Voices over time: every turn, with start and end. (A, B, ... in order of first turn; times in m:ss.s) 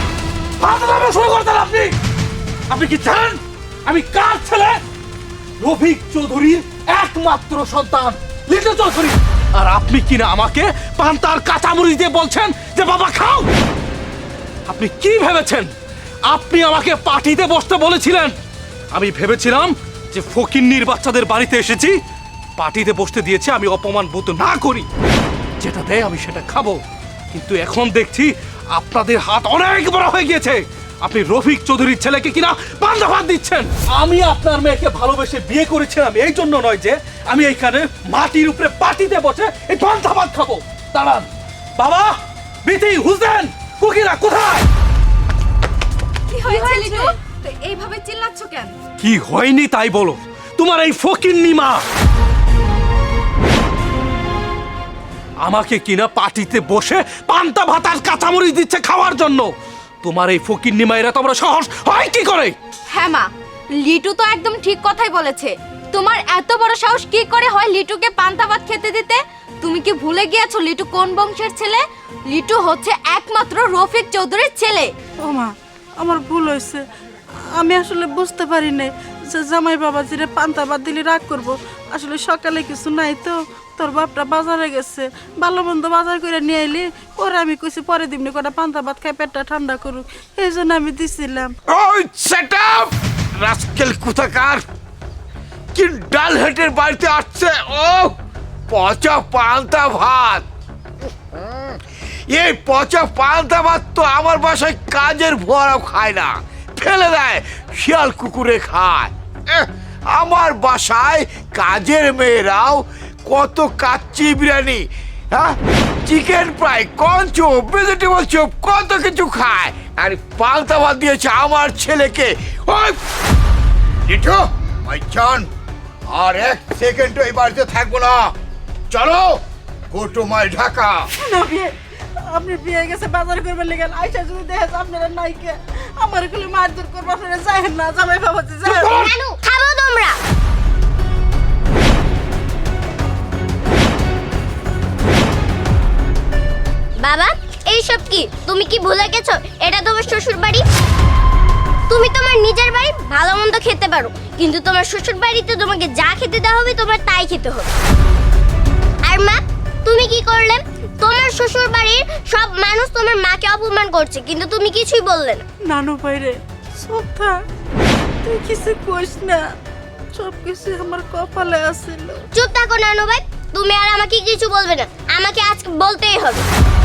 0:00.6-0:01.9 A
0:02.7-0:04.8 A
0:05.6-0:13.5 A
0:14.7-0:15.7 A
0:16.3-0:18.4 A
0:18.9-0:22.0 A
0:22.6-0:24.9 A
0:25.6-0:26.8 A
0:27.3-0:44.6 A
0:46.3-0:48.7 B
0:49.0-0:51.8 A
0:55.4-0:59.5 A
1:00.0-1:02.6 A
1:02.9-1:03.3 B
1:03.8-1:14.9 B
1:15.2-1:16.8 C
1:17.4-1:31.5 C
1:31.7-1:34.6 D
1:35.7-1:38.2 D
1:38.7-1:40.5 D
1:41.4-1:41.8 D
1:42.3-2:03.0 D
2:04.1-2:05.5 D
2:06.1-2:08.3 D
2:08.9-2:11.1 D
2:11.2-2:19.1 C
2:18.7-2:20.2 E
2:27.0-2:30.6 E
2:31.9-2:37.7 E
2:39.0-2:45.4 E
2:45.6-2:47.4 C
2:48.2-2:49.5 C
2:50.1-2:52.2 C
2:52.3-2:56.5 E